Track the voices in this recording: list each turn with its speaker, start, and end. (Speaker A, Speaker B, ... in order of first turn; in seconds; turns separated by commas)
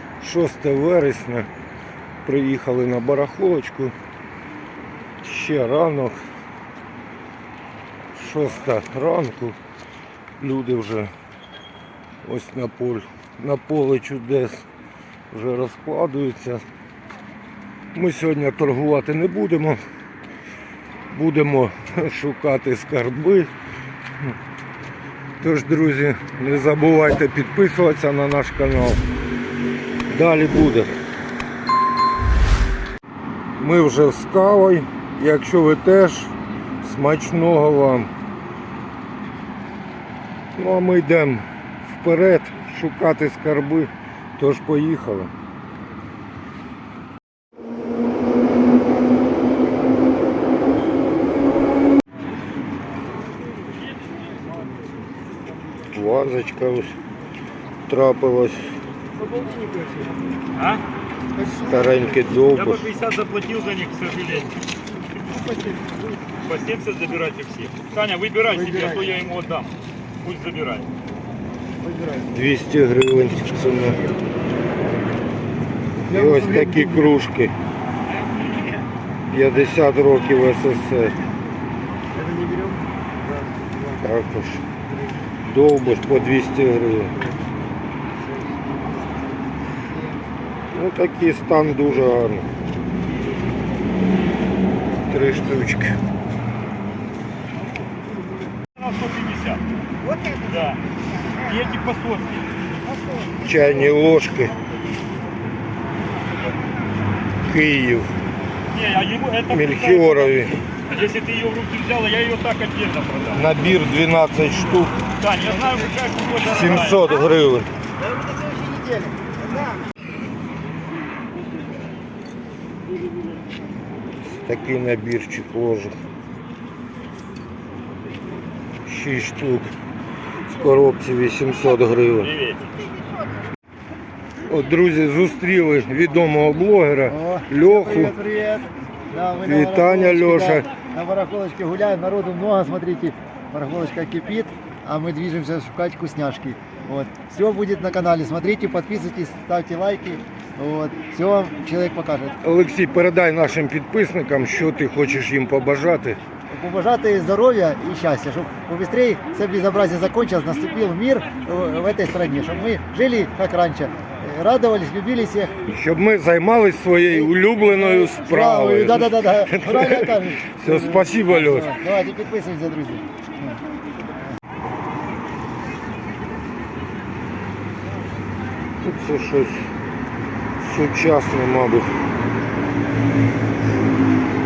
Speaker A: 0.2-1.5, Speaker A: 2.2-3.9, Speaker A: 5.2-6.2, Speaker A: 8.1-9.6, Speaker A: 10.4-11.1, Speaker A: 12.2-14.7, Speaker A: 15.3-16.6, Speaker A: 17.9-19.8, Speaker A: 21.1-23.5, Speaker A: 25.4-29.0, Speaker A: 30.1-30.9, Speaker A: 33.6-38.1, Speaker A: 40.5-45.3, Speaker A: 55.9-56.9, Speaker A: 57.9-58.8, Speaker B: 59.3-60.0, Speaker C: 60.5-60.8, Speaker B: 61.4-62.0, Speaker A: 61.5-62.9, Speaker C: 62.5-64.6, Speaker B: 65.3-66.0, Speaker C: 66.4-70.9, Speaker B: 68.5-69.2, Speaker B: 71.8-72.3, Speaker A: 72.3-74.0, Speaker B: 76.0-77.1, Speaker A: 76.1-77.5, Speaker A: 79.3-81.2, Speaker B: 82.1-84.1, Speaker A: 84.0-84.6, Speaker A: 85.5-87.2, Speaker B: 88.1-90.3, Speaker A: 90.7-92.5, Speaker A: 95.0-95.9, Speaker C: 98.8-99.6, Speaker C: 100.4-100.8, Speaker C: 101.4-102.5, Speaker A: 103.4-104.5, Speaker A: 107.4-108.2, Speaker C: 108.7-113.5, Speaker A: 109.5-110.6, Speaker A: 113.3-115.0, Speaker C: 115.1-117.1, Speaker A: 116.5-117.7, Speaker A: 124.3-126.0, Speaker A: 128.8-129.7, Speaker A: 130.5-132.3, Speaker C: 132.2-132.9, Speaker A: 134.4-138.2, Speaker B: 137.1-152.3, Speaker A: 139.4-140.7, Speaker A: 152.4-156.2, Speaker B: 156.5-165.5, Speaker A: 165.6-171.8, Speaker B: 167.1-173.6, Speaker A: 178.8-179.7, Speaker A: 180.6-181.9